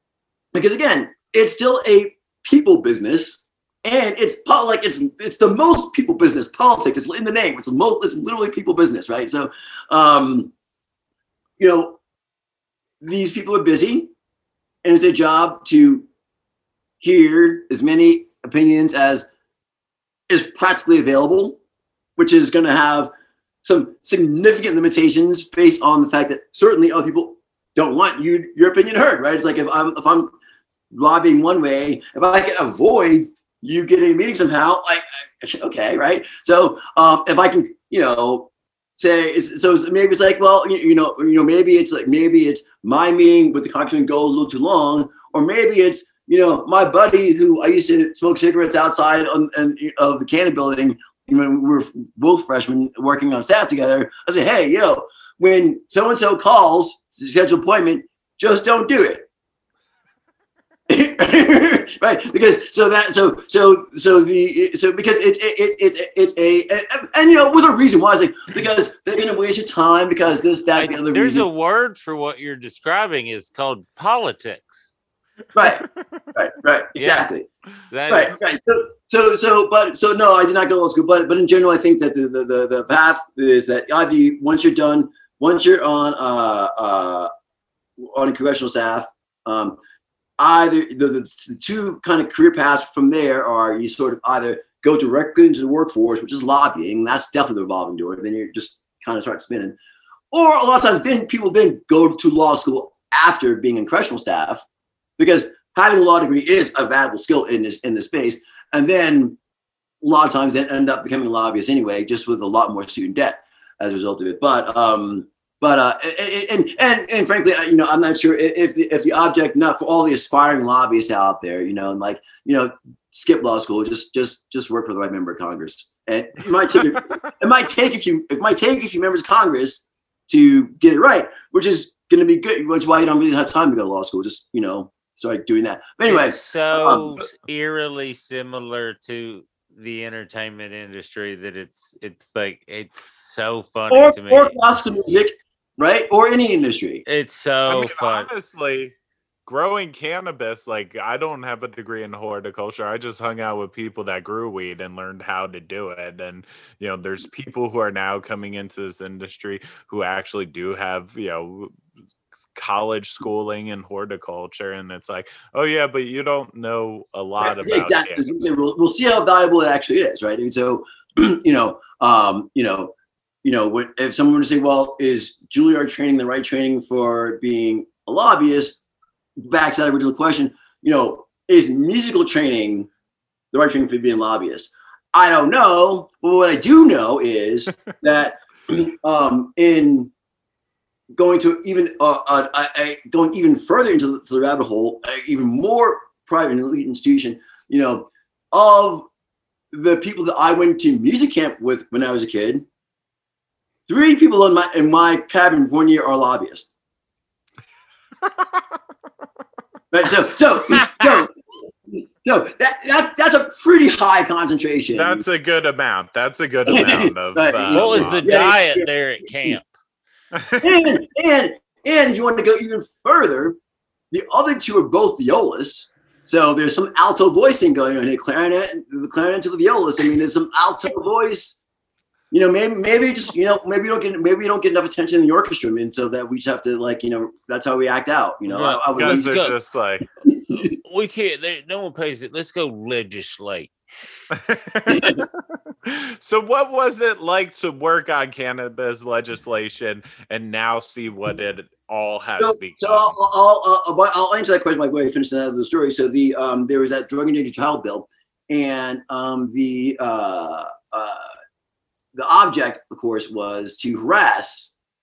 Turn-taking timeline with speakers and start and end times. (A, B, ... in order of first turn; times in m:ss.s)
0:00.5-0:10.5 A
0:11.6-0:12.0 A
0:13.0-0:14.1 A
0:14.8-0:16.1 A
0:17.0-0:19.3 A
0:20.3-0:21.6 A
0:22.2-0:23.1 A
0:23.6-0:30.3 A
0:30.9-0:59.3 A
1:00.9-1:11.4 A
1:10.7-1:14.9 B
1:15.5-1:17.5 A
1:17.0-1:17.3 B
1:17.9-1:18.4 B
1:18.1-1:27.3 A
1:28.0-1:29.8 A
1:30.4-1:39.8 A
1:40.3-1:44.6 A
1:45.2-1:49.4 A
1:50.0-2:17.0 A
2:16.0-2:24.6 B
2:16.9-2:17.2 C
2:23.9-2:27.0 A
2:27.0-2:28.3 B
2:27.7-2:28.9 C
2:29.4-2:41.7 C
2:42.5-2:48.3 C
2:47.4-2:58.8 A
2:59.4-3:02.9 A
3:03.5-3:10.1 A
3:11.2-3:19.1 A
3:19.7-3:22.6 A
3:23.9-3:26.7 A
3:28.3-3:28.6 C
3:29.9-3:31.3 A
3:30.7-3:31.2 C
3:31.9-3:35.2 A
3:34.9-3:38.3 C
3:36.7-3:39.5 A
3:37.7-3:39.7 B
3:40.3-3:40.7 C
3:40.6-3:43.6 A
3:44.1-3:51.6 A
3:52.3-3:59.4 A
3:58.5-3:59.5 B
3:58.9-4:00.1 C
4:00.3-4:00.7 A
4:00.8-4:03.7 B
4:04.3-4:05.3 C
4:04.9-4:05.2 A
4:05.8-4:13.2 C
4:12.4-4:21.3 A
4:22.1-4:24.7 A